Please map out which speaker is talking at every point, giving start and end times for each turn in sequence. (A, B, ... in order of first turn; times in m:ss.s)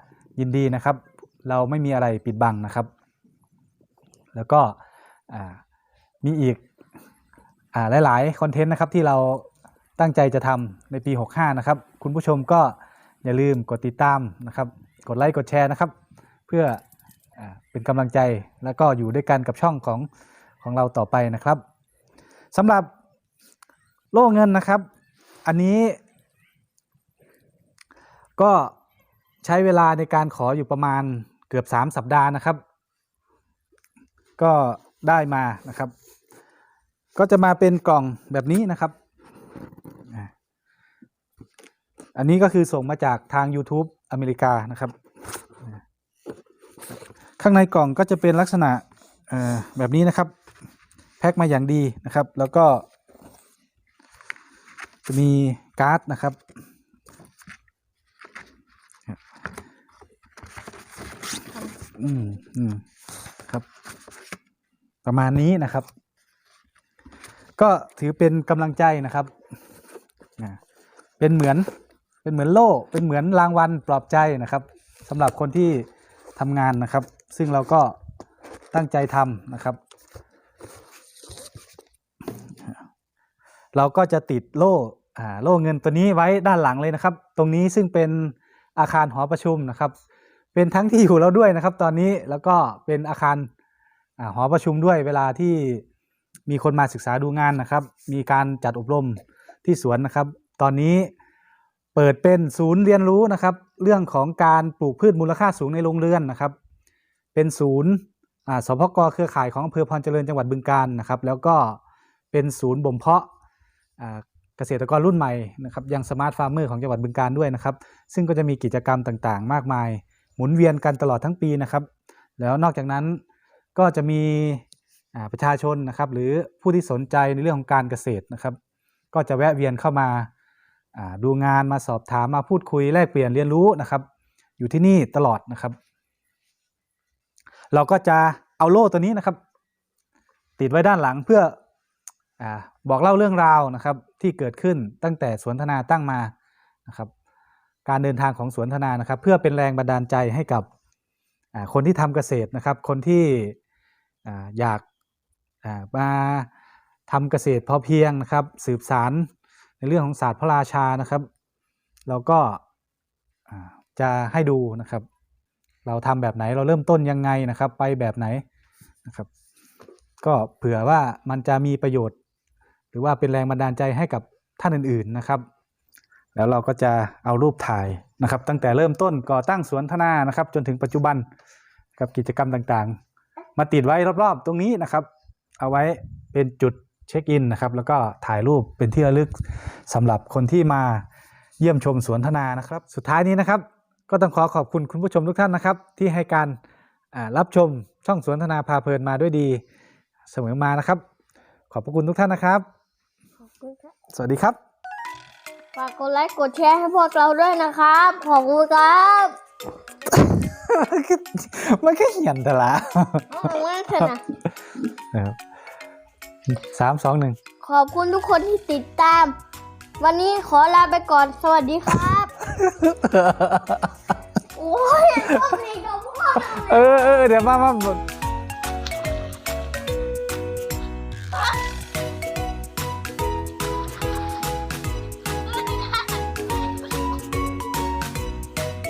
0:00.4-0:02.9 A
0:04.3-0:04.8 A
0:05.3-0:05.6 A
0:06.2-0:06.6 A
0:07.7-0:09.5 A
0:10.0-0:15.9 A
0:16.5-0:16.8 A
0:17.4-0:20.1 A
0:20.6-0:21.6 A
0:22.5-0:22.9 A
0:24.1-0:24.9 A
0:25.5-0:26.0 A
0:28.4-0:28.7 A
0:29.4-0:32.6 A
0:34.4-0:35.9 A
0:37.2-0:38.9 A
0:42.2-0:44.9 A
0:47.4-0:50.3 A
0:51.2-0:52.8 A
0:55.0-0:56.4 A
1:02.0-1:02.8 A
1:05.0-1:05.9 A
1:07.6-1:09.3 A
1:11.2-1:11.7 A
1:12.2-1:18.0 A
1:18.7-1:19.8 A
1:23.7-1:29.9 A
1:30.5-1:33.5 A
1:34.2-1:35.8 A
1:36.5-1:41.1 A
1:42.0-1:46.6 A
1:47.3-1:51.8 A
1:52.3-1:53.3 A
1:54.0-2:01.9 A
2:02.4-2:03.2 A
2:03.8-2:08.6 A
2:09.1-2:10.3 A
2:11.0-2:14.0 A
2:14.6-2:15.8 A
2:17.7-2:19.4 A
2:20.6-2:21.6 A
2:22.4-2:26.3 A
2:27.8-2:30.7 A
2:31.5-2:33.6 A
2:34.2-2:34.8 A
2:35.6-2:36.5 A
2:37.1-2:39.3 A
2:39.8-2:41.3 A
2:42.1-2:42.6 A
2:43.5-2:45.1 A
2:45.8-2:48.4 A
2:50.2-2:52.2 A
2:52.9-2:55.4 A
2:56.4-3:01.2 A
3:02.0-3:03.0 A
3:03.6-3:05.1 A
3:05.6-3:11.0 A
3:11.6-3:16.6 A
3:17.1-3:19.6 A
3:20.3-3:21.0 A
3:21.7-3:22.6 A
3:23.5-3:23.9 B
3:24.1-3:24.6 A
3:25.8-3:29.4 B
3:30.1-3:33.5 A
3:33.3-3:34.2 B
3:36.5-3:37.4 A
3:37.6-3:39.3 B
3:40.0-3:42.4 B
3:42.5-3:43.9 A
3:44.6-3:46.8 B
3:46.4-3:48.0 A